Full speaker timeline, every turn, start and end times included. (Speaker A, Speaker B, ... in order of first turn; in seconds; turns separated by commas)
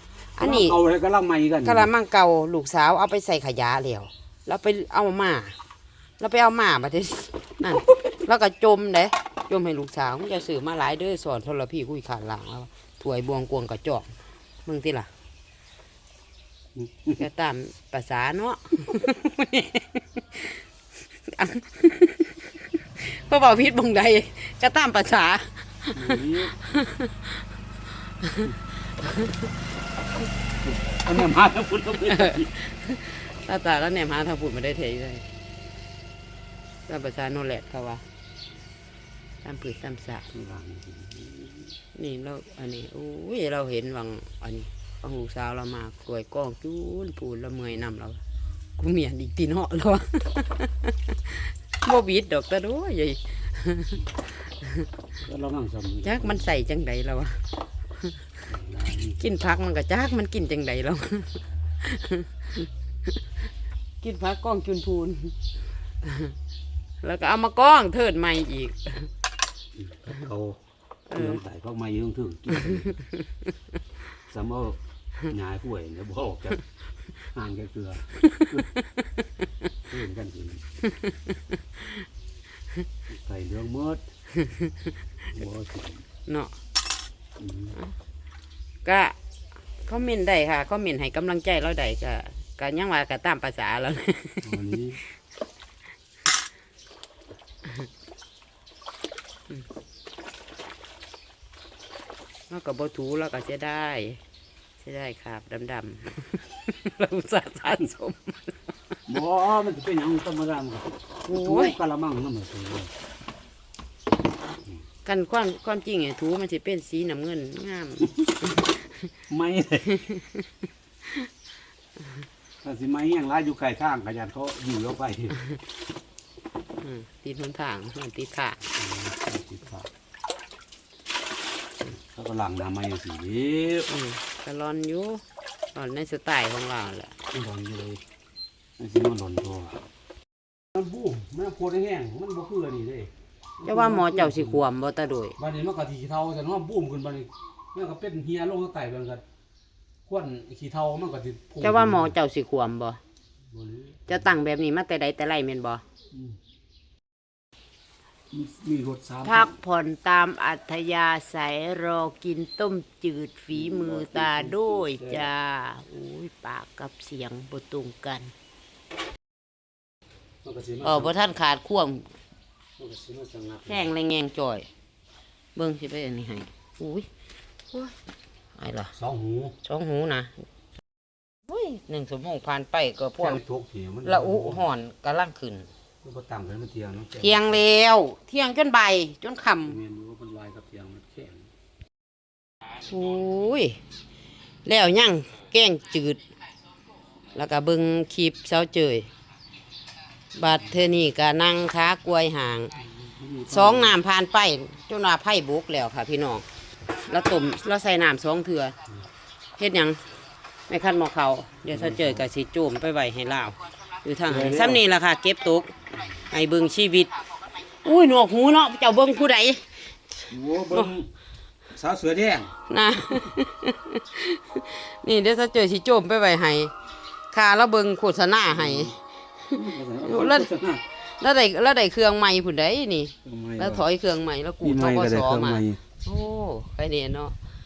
Speaker A: 0.3-0.8, Speaker B: 0.4-1.9, Speaker A: 1.6-5.5, Speaker A: 6.2-14.1, Speaker A: 14.7-15.1, Speaker B: 16.8-17.2, Speaker A: 17.2-20.6, Speaker A: 21.3-27.4, Speaker B: 25.9-26.6, Speaker A: 28.2-29.5, Speaker B: 30.6-32.5, Speaker A: 32.1-35.2, Speaker A: 36.9-38.0, Speaker A: 39.4-40.2, Speaker B: 40.3-41.7, Speaker A: 41.9-48.2, Speaker A: 48.8-54.9, Speaker B: 55.2-56.5, Speaker A: 56.0-57.4, Speaker B: 58.5-59.2, Speaker A: 59.2-62.6, Speaker A: 64.0-65.3, Speaker A: 66.0-66.3, Speaker A: 67.0-69.1, Speaker B: 69.8-70.6, Speaker A: 71.1-71.4, Speaker B: 71.1-73.0, Speaker A: 72.9-73.2, Speaker B: 74.3-76.6, Speaker B: 77.2-78.7, Speaker A: 78.2-78.9, Speaker B: 79.9-80.6, Speaker A: 80.9-82.0, Speaker B: 83.1-84.0, Speaker A: 84.4-84.7, Speaker B: 85.3-86.0, Speaker A: 86.2-86.5, Speaker B: 87.4-87.8, Speaker A: 88.8-89.2, Speaker A: 89.8-95.1, Speaker B: 94.4-95.0, Speaker A: 102.5-104.2, Speaker A: 104.8-108.7, Speaker B: 109.1-112.9, Speaker A: 111.2-111.8, Speaker A: 115.0-119.0, Speaker B: 119.3-119.9, Speaker A: 119.9-120.5, Speaker B: 122.6-125.5, Speaker A: 126.8-128.6, Speaker B: 128.8-129.9, Speaker B: 131.8-133.9, Speaker A: 133.9-135.2, Speaker A: 135.7-137.1, Speaker B: 137.3-138.0, Speaker B: 138.8-139.8, Speaker B: 140.7-144.6, Speaker A: 143.6-145.3, Speaker B: 145.4-149.2, Speaker B: 150.1-152.2, Speaker A: 151.6-153.0, Speaker B: 153.5-154.3, Speaker A: 154.1-155.8, Speaker B: 156.1-156.4, Speaker B: 158.3-159.5, Speaker A: 159.2-168.3, Speaker B: 163.5-165.3, Speaker B: 170.4-171.1, Speaker A: 170.8-172.1, Speaker B: 172.8-173.9, Speaker A: 173.7-174.7, Speaker A: 175.5-177.1, Speaker A: 178.6-178.9, Speaker B: 178.9-179.5, Speaker A: 179.6-180.4, Speaker A: 181.5-183.4, Speaker B: 183.2-184.6, Speaker A: 184.0-185.7, Speaker B: 186.0-187.6, Speaker A: 187.2-189.8, Speaker B: 189.6-191.5, Speaker A: 192.9-193.8, Speaker A: 194.6-196.2, Speaker A: 197.3-199.1, Speaker A: 200.3-202.7, Speaker B: 202.8-204.0, Speaker A: 203.5-206.4, Speaker A: 206.9-208.7, Speaker A: 209.6-210.0, Speaker A: 210.7-215.7, Speaker B: 211.7-212.2, Speaker B: 214.3-214.8, Speaker A: 216.3-217.1, Speaker A: 217.7-219.6, Speaker B: 220.3-221.1, Speaker B: 221.7-222.5, Speaker A: 222.7-226.7, Speaker A: 227.3-230.5, Speaker B: 228.5-228.9, Speaker B: 229.5-230.8, Speaker A: 231.0-237.3, Speaker B: 233.2-233.8, Speaker B: 234.6-235.8